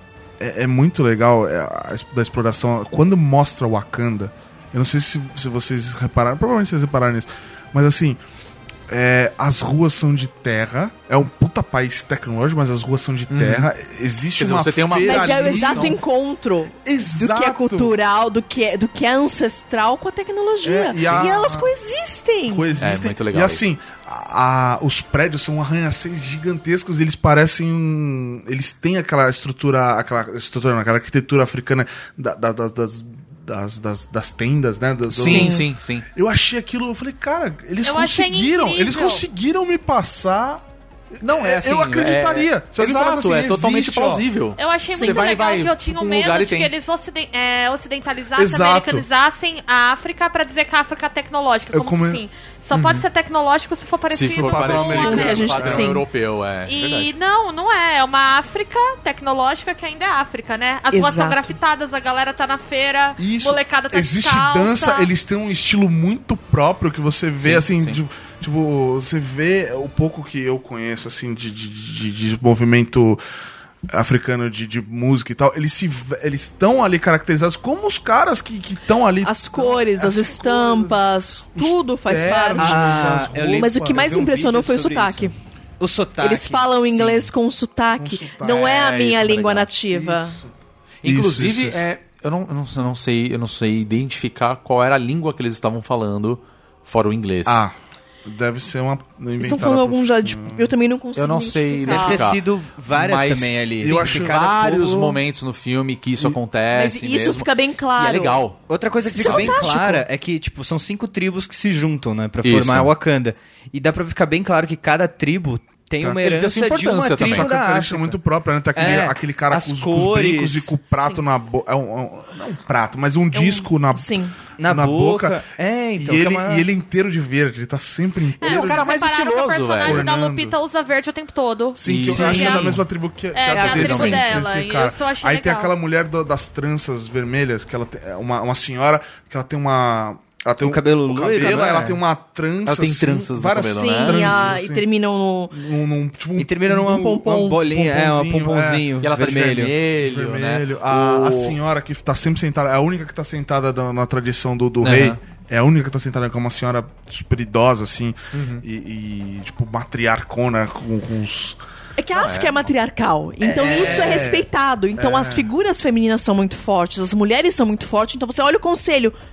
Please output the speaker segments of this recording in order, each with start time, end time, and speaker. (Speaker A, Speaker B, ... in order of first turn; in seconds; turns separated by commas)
Speaker A: 0.4-8.2, Speaker A: 8.9-16.0, Speaker B: 13.3-13.7, Speaker B: 14.4-16.0, Speaker C: 15.0-22.7, Speaker A: 16.8-18.0, Speaker A: 20.6-21.7, Speaker A: 22.5-40.6, Speaker B: 22.8-23.7, Speaker B: 35.1-36.1, Speaker C: 35.2-35.6, Speaker D: 37.8-39.2, Speaker A: 41.1-44.2, Speaker B: 41.2-46.7, Speaker D: 44.6-55.6, Speaker C: 44.9-45.3, Speaker A: 48.4-49.1, Speaker A: 51.7-52.2, Speaker B: 52.7-53.0, Speaker B: 54.1-57.1, Speaker A: 54.3-55.9, Speaker C: 54.9-56.0, Speaker D: 56.7-65.1, Speaker C: 60.9-61.5, Speaker A: 63.2-73.2, Speaker B: 67.4-68.0, Speaker A: 73.9-84.0, Speaker C: 79.2-85.3, Speaker E: 82.6-87.2, Speaker C: 86.2-90.4, Speaker A: 88.0-88.9, Speaker B: 88.7-89.7, Speaker A: 89.9-90.5, Speaker B: 91.0-97.6, Speaker A: 91.0-91.8, Speaker A: 97.5-97.7, Speaker A: 98.2-100.7, Speaker C: 99.4-102.2, Speaker B: 101.2-102.4, Speaker E: 101.9-105.2, Speaker B: 102.9-108.6, Speaker A: 103.0-104.4, Speaker C: 106.7-108.4, Speaker E: 108.7-118.2, Speaker C: 109.0-110.1, Speaker B: 112.4-112.9, Speaker A: 116.0-116.3, Speaker B: 116.2-117.5, Speaker A: 117.2-124.1, Speaker E: 118.7-120.7, Speaker C: 120.9-121.2, Speaker C: 123.3-124.4, Speaker E: 124.6-126.7, Speaker A: 124.6-125.4, Speaker A: 126.0-128.9, Speaker D: 128.4-132.7, Speaker B: 128.4-130.1, Speaker A: 129.8-130.6, Speaker A: 131.8-144.8, Speaker B: 131.8-132.8, Speaker D: 133.3-135.7, Speaker B: 133.5-134.4, Speaker E: 140.6-142.0, Speaker B: 142.7-144.5, Speaker C: 143.8-145.6, Speaker A: 145.5-148.9, Speaker E: 146.4-149.8, Speaker B: 149.0-151.6, Speaker A: 150.0-161.6, Speaker B: 154.8-155.2, Speaker B: 158.3-158.6, Speaker C: 162.0-169.2, Speaker B: 162.1-162.7, Speaker A: 163.4-165.5, Speaker E: 163.6-164.2